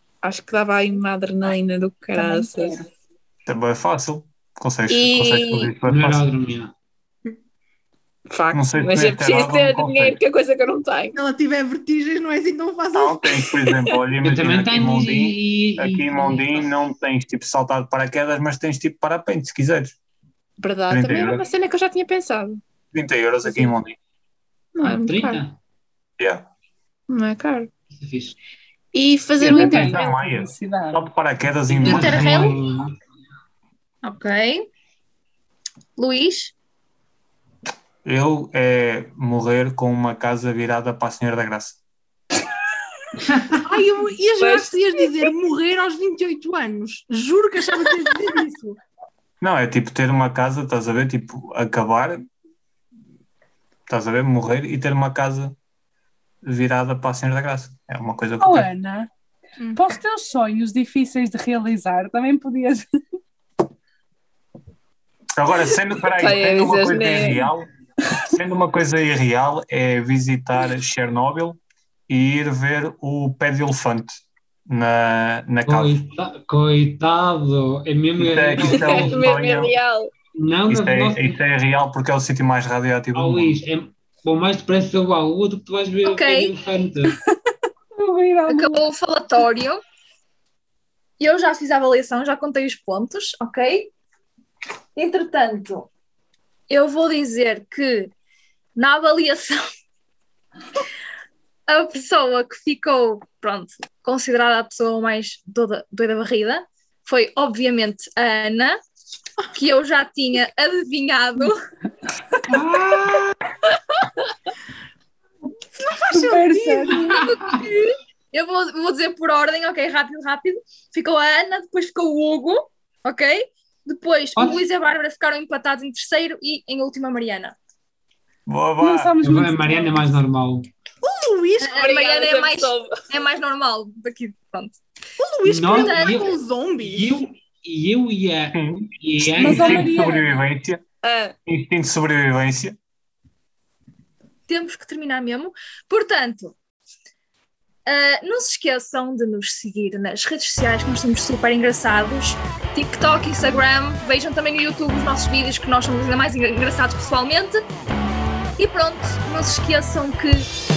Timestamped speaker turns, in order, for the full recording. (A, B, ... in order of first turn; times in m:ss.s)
0:00.2-0:02.8 A
0:02.2-0:02.8 B
0:03.5-0:06.3 C
0:04.9-0:05.7 A
0:05.8-0:06.7 D
0:08.3-0:11.2 A
0:08.5-0:10.2 C
0:11.1-0:13.5 E
0:12.9-0:20.0 C
0:14.2-0:16.9 D
0:20.6-0:22.6 A
0:20.9-0:21.4 C
0:22.9-0:24.0 C
0:24.8-0:25.4 A
0:24.8-0:25.6 D
0:26.2-0:26.4 C
0:27.1-0:27.7 A
0:27.9-0:28.4 D
0:28.9-0:30.1 A
0:29.4-0:32.4 C
0:29.4-0:31.1 B
0:31.7-0:32.9 D
0:31.8-0:32.6 F
0:34.0-0:34.6 F
0:36.0-0:36.5 F
0:38.0-0:41.8 C
0:43.6-0:48.8 E
0:44.4-0:45.2 A
0:49.4-0:52.2 C
0:53.9-0:55.6 C
0:56.4-0:58.7 C
0:58.4-0:59.1 B
0:59.6-0:59.9 E
0:59.8-1:02.8 B
1:05.4-1:07.7 C
1:06.1-1:07.5 A
1:08.3-1:16.0 C
1:15.7-1:19.3 D
1:18.2-1:19.7 C
1:18.6-1:20.1 A
1:20.3-1:21.4 D
1:20.7-1:23.6 C
1:23.1-1:27.2 D
1:26.0-1:26.5 F
1:28.0-1:28.8 B
1:28.5-1:29.8 F
1:31.2-1:33.9 F
1:35.0-1:35.9 F
1:36.7-1:38.1 F
1:38.8-1:39.6 F
1:41.7-1:48.8 F
1:49.5-1:51.6 F
1:52.5-1:53.4 D
1:55.8-1:57.2 E
1:56.1-1:57.2 B
1:57.0-2:07.6 F
2:04.4-2:04.6 D
2:08.5-2:09.2 C
2:08.8-2:10.2 B
2:09.2-2:10.7 D
2:11.0-2:11.8 E
2:11.6-2:14.8 F
2:11.7-2:12.9 A
2:15.2-2:17.1 E
2:15.5-2:20.0 D
2:15.7-2:16.2 F
2:18.5-2:20.8 C
2:19.4-2:20.4 B
2:21.0-2:21.4 A
2:21.5-2:22.8 C
2:24.5-2:26.6 F
2:27.9-2:37.6 F
2:38.6-2:40.5 F